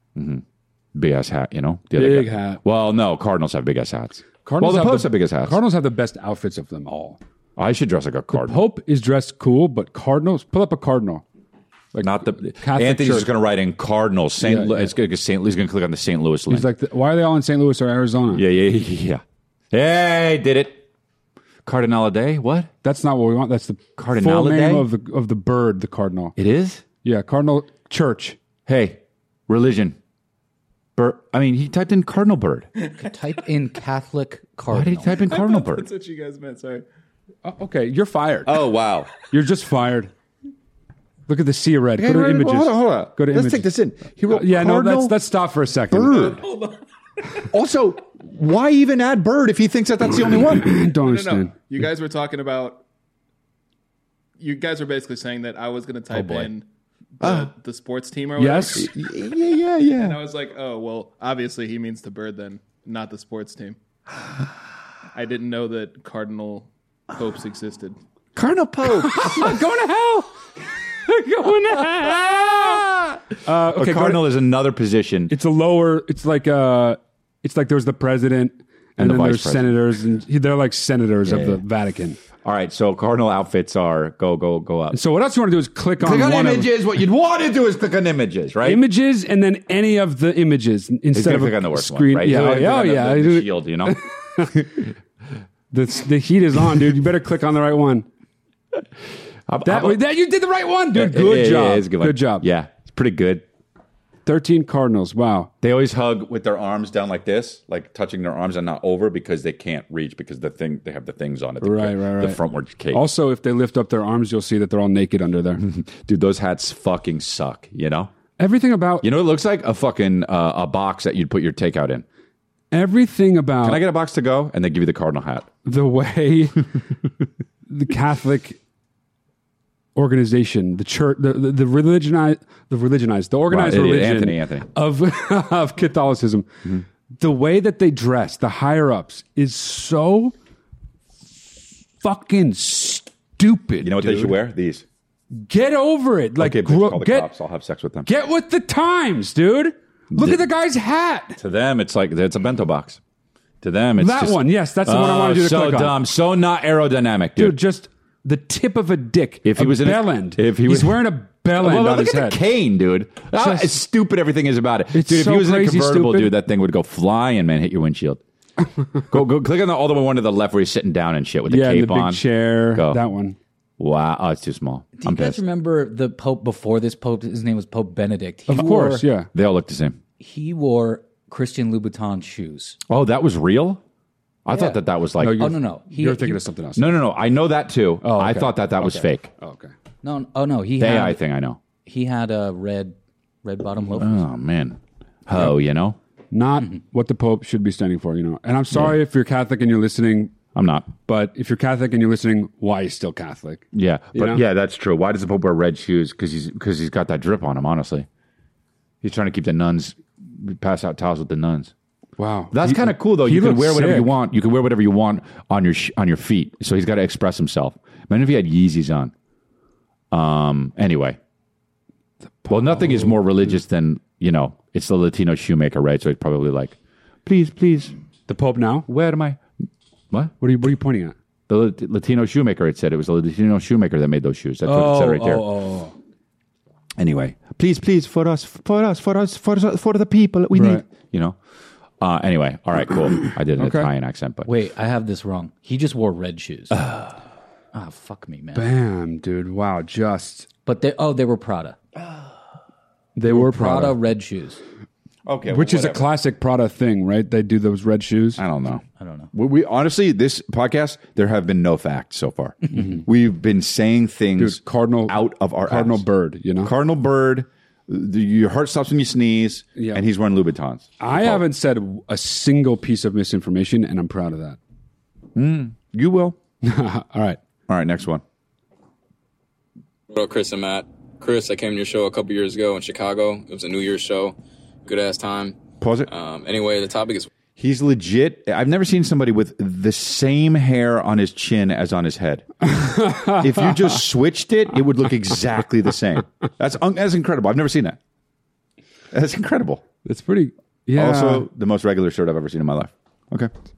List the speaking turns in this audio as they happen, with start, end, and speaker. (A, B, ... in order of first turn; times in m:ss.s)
0:00.2-0:00.4 A
0:00.9-0:05.6 A
0:01.9-0:02.6 B
0:04.4-0:07.2 B
0:07.6-0:08.6 A
0:08.3-0:11.2 B
0:11.9-0:13.3 B
0:12.0-0:16.7 A
0:14.4-0:14.9 B
0:16.5-0:18.4 B
0:18.3-0:20.8 A
0:21.6-0:22.7 A
0:22.8-0:26.4 B
0:24.0-0:24.9 A
0:26.4-0:26.8 A
0:27.0-0:28.4 B
0:28.6-0:30.0 A
0:31.0-0:32.7 A
0:32.9-0:35.1 C
0:34.7-0:35.9 A
0:35.1-0:36.8 D
0:37.4-0:38.6 B
0:38.4-0:39.1 A
0:39.3-0:40.1 B
0:41.3-0:43.7 B
0:42.0-0:45.2 A
0:44.3-0:46.3 B
0:45.9-0:46.4 A
0:46.1-0:46.8 D
0:47.5-0:50.7 A
0:50.4-0:51.5 B
0:50.9-0:52.8 D
0:54.4-0:56.7 D
0:56.1-0:56.5 C
0:57.2-0:59.0 D
0:57.2-0:57.5 A
0:58.4-0:58.9 B
0:58.7-1:00.2 A
0:59.9-1:03.8 D
1:05.1-1:08.0 D
1:08.3-1:09.6 A
1:08.9-1:10.3 B
1:11.1-1:12.8 B
1:11.7-1:15.3 A
1:13.4-1:14.2 B
1:15.3-1:22.2 B
1:19.0-1:19.7 A
1:21.2-1:21.6 A
1:22.4-1:25.0 A
1:24.9-1:26.7 B
1:26.0-1:28.8 A
1:28.6-1:34.8 B
1:31.1-1:34.6 A
1:35.7-1:38.1 B
1:39.5-1:40.0 A
1:39.6-1:42.5 B
1:40.9-1:43.4 A
1:44.2-1:45.5 B
1:45.6-1:53.0 A
1:51.6-1:52.4 B
1:52.9-1:55.6 B
1:55.6-1:58.1 A
1:58.4-1:59.1 B
1:59.0-2:02.0 A
2:02.7-2:03.8 B
2:03.6-2:05.5 A
2:05.6-2:06.7 B
2:07.7-2:08.6 B
2:10.0-2:16.5 B
2:13.5-2:14.7 A
2:17.2-2:20.3 B
2:22.0-2:24.4 B
2:23.8-2:24.8 A
2:25.3-2:27.3 B
2:26.4-2:28.1 A
2:28.0-2:31.4 B
2:30.1-2:30.4 A
2:31.4-2:33.0 A
2:33.6-2:37.6 A
2:34.0-2:36.0 B
2:37.4-2:42.4 B
2:39.4-2:48.2 A
2:43.4-2:43.7 B
2:44.9-2:46.3 B
2:49.1-2:53.0 A
2:51.5-2:53.4 B
2:53.8-2:55.4 A
2:55.0-2:59.0 C
2:58.5-2:59.3 B
2:59.3-3:00.0 A
3:00.2-3:02.8 C
3:02.9-3:03.8 A
3:04.4-3:05.5 A
3:04.5-3:04.8 C
3:05.2-3:06.9 B
3:05.4-3:06.4 C
3:06.8-3:09.3 A
3:08.0-3:09.7 B
3:10.0-3:11.2 C
3:10.8-3:11.6 A
3:11.8-3:14.2 C
3:14.0-3:16.0 A
3:16.3-3:20.3 B
3:18.7-3:19.0 A
3:20.5-3:20.9 A
3:21.1-3:24.4 B
3:23.7-3:28.1 A
3:29.0-3:31.7 A
3:32.2-3:34.1 B
3:32.5-3:39.1 A
3:40.1-3:41.2 A
3:42.4-3:43.5 B
3:42.5-3:47.9 A
3:48.3-3:48.9 B
3:48.9-3:49.4 A
3:50.4-3:51.2 B
3:51.5-3:55.5 A
3:54.6-3:55.9 B
3:57.0-4:01.4 A
4:00.5-4:00.8 B
4:02.0-4:04.5 A
4:03.6-4:03.9 B
4:04.4-4:06.9 C
4:06.7-4:07.2 A
4:07.7-4:08.6 C
4:08.5-4:10.5 B
4:10.6-4:11.8 C
4:12.0-4:12.3 A
4:13.2-4:14.0 B
4:13.3-4:13.7 A
4:13.4-4:14.6 C
4:15.2-4:16.1 A
4:15.5-4:18.4 B
4:18.4-4:26.0 A
4:19.0-4:19.3 C
4:22.7-4:23.0 B
4:24.4-4:26.7 B
4:26.6-4:31.4 A
4:29.8-4:30.0 B
4:31.0-4:34.6 B
4:35.3-4:36.4 A
4:36.6-4:37.4 B
4:37.7-4:38.2 A
4:40.1-4:44.3 E
4:44.8-4:47.3 E
4:45.8-4:46.1 A
4:47.6-4:58.0 A
4:52.6-4:53.7 B
4:59.1-4:59.8 A
5:00.0-5:01.4 B
5:00.9-5:03.5 A